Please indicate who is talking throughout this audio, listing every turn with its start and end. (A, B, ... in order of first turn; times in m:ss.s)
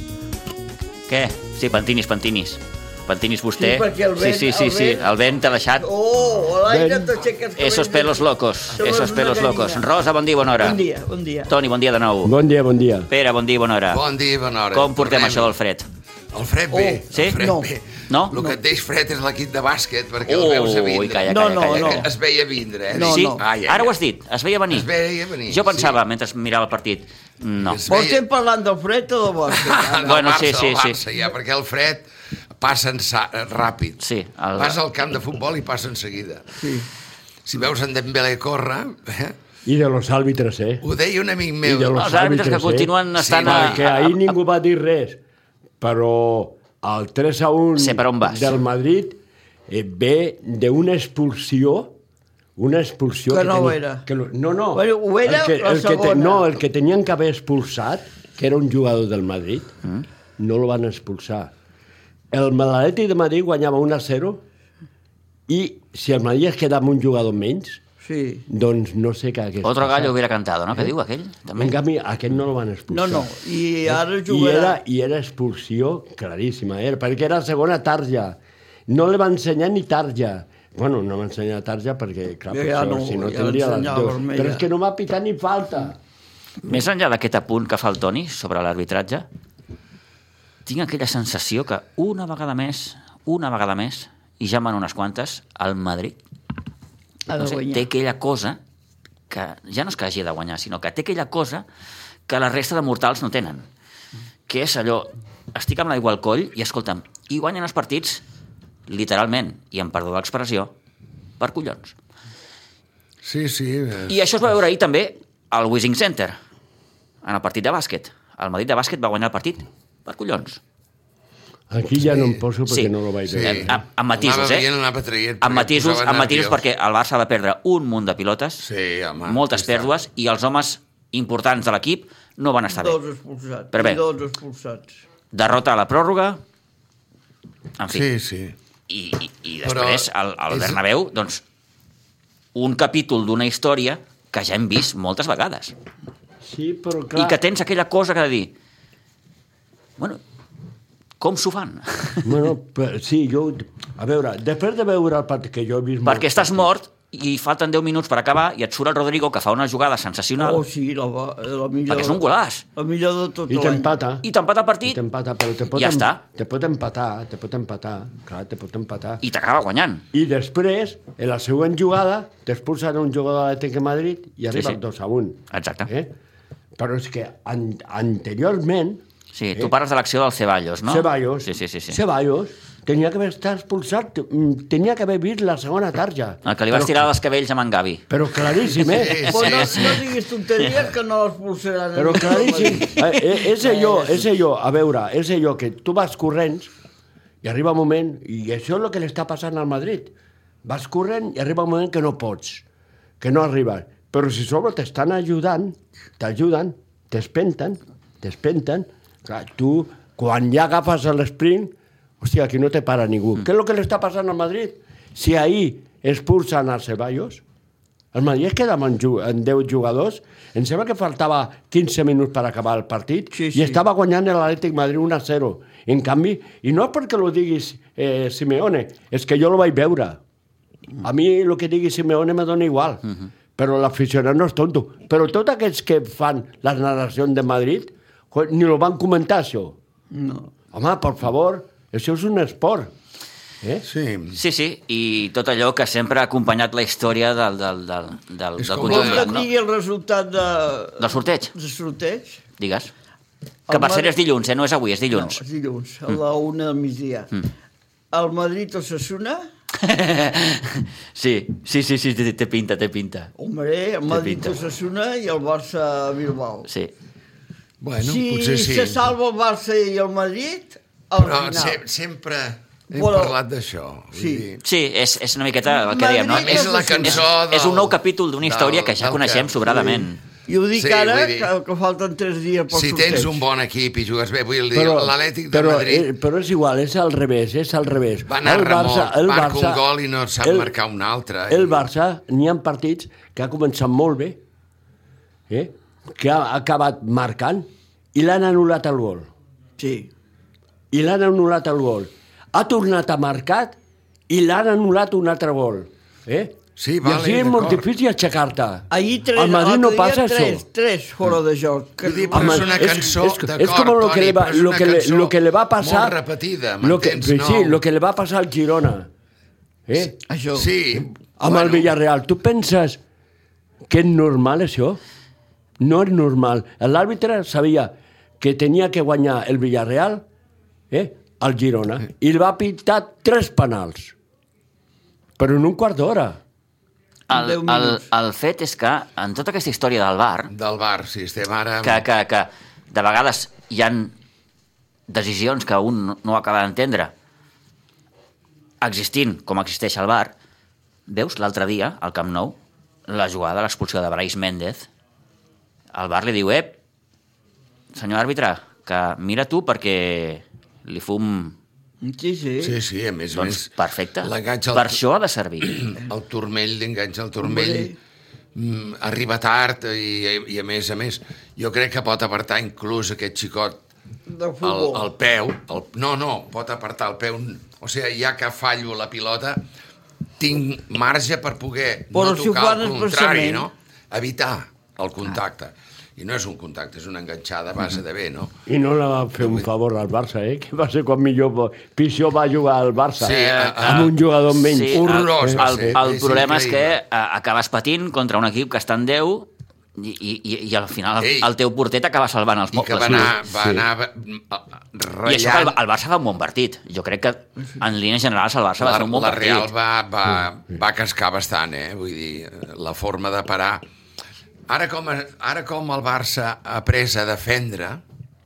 0:01.1-0:05.9 A
0:03.6-0:05.1 B
0:05.8-0:09.8 B
0:06.7-0:07.1 C
0:07.6-0:10.8 A
0:10.5-0:11.5 B
0:11.5-0:12.3 A
0:12.2-0:13.1 C
0:13.1-0:14.0 A
0:13.9-0:15.5 D
0:14.7-0:15.9 A
0:16.3-0:23.9 D
0:16.7-0:17.7 B
0:18.1-0:18.4 A
0:20.3-0:22.1 A
0:21.2-0:22.1 B
0:22.9-0:23.4 B
0:23.0-0:24.9 A
0:24.7-0:26.0 D
0:25.5-0:27.8 A
0:27.6-0:28.2 D
0:27.9-0:30.2 B
0:29.5-0:32.0 D
0:30.0-0:31.0 A
0:32.6-0:34.0 D
0:34.0-0:34.8 A
0:34.6-0:36.6 D
0:36.6-0:36.9 B
0:37.4-0:39.4 D
0:39.6-0:40.8 C
0:40.8-0:42.0 D
0:41.6-0:45.2 C
0:41.9-0:44.3 A
0:43.2-0:43.9 D
0:45.8-0:52.0 C
0:47.8-0:48.6 A
0:52.6-0:59.8 C
0:53.3-0:54.0 B
0:54.7-0:56.5 B
1:00.4-1:01.5 C
1:02.3-1:04.4 C
1:05.5-1:07.8 C
1:08.0-1:08.4 B
1:08.5-1:10.1 C
1:09.6-1:11.8 A
1:11.6-1:13.3 C
1:12.9-1:14.8 B
1:13.9-1:26.0 C
1:22.5-1:24.6 B
1:26.6-1:29.3 A
1:30.7-1:36.2 A
1:37.3-1:37.9 B
1:37.4-1:38.6 A
1:39.3-1:41.6 A
1:42.3-1:43.7 A
1:44.5-1:48.2 A
1:48.9-1:50.7 A
1:51.4-1:52.0 A
1:53.2-1:54.2 D
1:54.1-1:56.4 A
1:57.2-2:00.6 A
2:01.7-2:03.8 C
2:02.1-2:02.4 D
2:03.3-2:06.6 D
2:03.4-2:04.7 A
2:05.4-2:08.6 A
2:08.6-2:09.9 D
2:09.3-2:13.0 A
2:12.7-2:15.0 B
2:13.7-2:14.0 A
2:15.3-2:16.4 A
2:17.8-2:18.0 A
2:17.9-2:18.6 D
2:18.9-2:21.4 A
2:19.6-2:20.8 D
2:22.6-2:25.8 A
2:26.4-2:27.4 C
2:27.2-2:28.5 A
2:31.2-2:32.5 A
2:32.2-2:36.7 C
2:36.0-2:40.6 A
2:40.4-2:42.2 B
2:41.9-2:42.6 A
2:42.8-2:43.9 B
2:43.5-2:44.2 C
2:44.2-2:45.0 A
2:44.9-2:49.2 C
2:45.7-2:46.2 A
2:49.2-2:50.0 A
2:50.1-2:56.1 C
2:54.5-2:54.8 A
2:55.5-2:55.9 A
2:56.8-2:59.7 C
2:59.3-3:02.0 A
3:00.9-3:07.1 C
3:06.4-3:08.0 A
3:08.1-3:09.3 C
3:08.8-3:10.0 D
3:09.3-3:14.2 B
3:09.3-3:10.0 A
3:12.0-3:16.7 C
3:17.4-3:20.1 C
3:20.6-3:22.6 C
3:23.2-3:37.4 C
3:38.1-3:50.2 C
3:43.3-3:43.8 B
3:51.0-3:59.8 C
4:00.1-4:00.5 B
4:00.7-4:02.9 C
4:03.8-4:04.4 D
4:04.3-4:09.5 A
4:08.6-4:09.4 D
4:08.8-4:12.4 B
4:11.0-4:11.5 A
4:12.6-4:12.9 A
4:13.7-4:14.1 B
4:13.7-4:15.4 A
4:15.1-4:17.3 B
4:18.1-4:19.5 B
4:19.8-4:23.3 A
4:23.4-4:26.7 B
4:24.1-4:24.6 A
4:26.7-4:26.9 A
4:27.8-4:29.1 D
4:28.0-4:31.8 B
4:31.2-4:34.6 D
4:32.9-4:33.4 B
4:34.1-4:34.5 B
4:34.6-4:40.2 A
4:35.7-4:37.2 B
4:36.3-4:40.0 D
4:40.5-4:43.4 B
4:40.7-4:41.5 D
4:42.7-4:46.1 D
4:44.7-4:49.8 C
4:48.3-4:51.8 D
4:50.4-4:50.7 C
4:51.5-4:54.4 C
4:55.5-4:59.3 C
4:59.8-5:00.1 B
5:00.9-5:03.8 C
5:04.3-5:10.6 C
5:06.8-5:07.8 D
5:08.9-5:12.8 B
5:12.0-5:17.8 D
5:12.3-5:16.2 C
5:16.8-5:19.1 C
5:19.9-5:20.2 C
5:20.3-5:20.7 B
5:20.5-5:21.9 D
5:21.0-5:23.0 C
5:23.9-5:25.0 C
5:25.8-5:30.2 C
5:30.9-5:34.2 C
5:35.4-5:36.4 C
5:37.3-5:40.5 A
5:37.3-5:38.1 B
5:40.5-5:42.0 D
5:41.8-5:44.1 A
5:45.1-5:47.1 A
5:48.8-5:50.3 A
5:51.1-5:54.9 A
5:55.9-5:56.8 A
5:57.9-6:01.6 A
6:02.0-6:02.8 B
6:02.6-6:05.0 D
6:03.3-6:05.8 A
6:05.6-6:08.0 D
6:07.4-6:08.0 B
6:08.6-6:13.8 D
6:14.3-6:15.1 B
6:14.6-6:19.7 D
6:20.4-6:28.6 D
6:22.1-6:23.7 B
6:28.7-6:35.7 C
6:33.2-6:34.2 D
6:33.3-6:43.4 A
6:34.9-6:37.0 D
6:41.2-6:41.5 D
6:42.7-6:45.8 D
6:43.1-6:43.8 C
6:45.3-6:49.7 A
6:48.8-6:53.8 D
6:54.7-6:58.0 D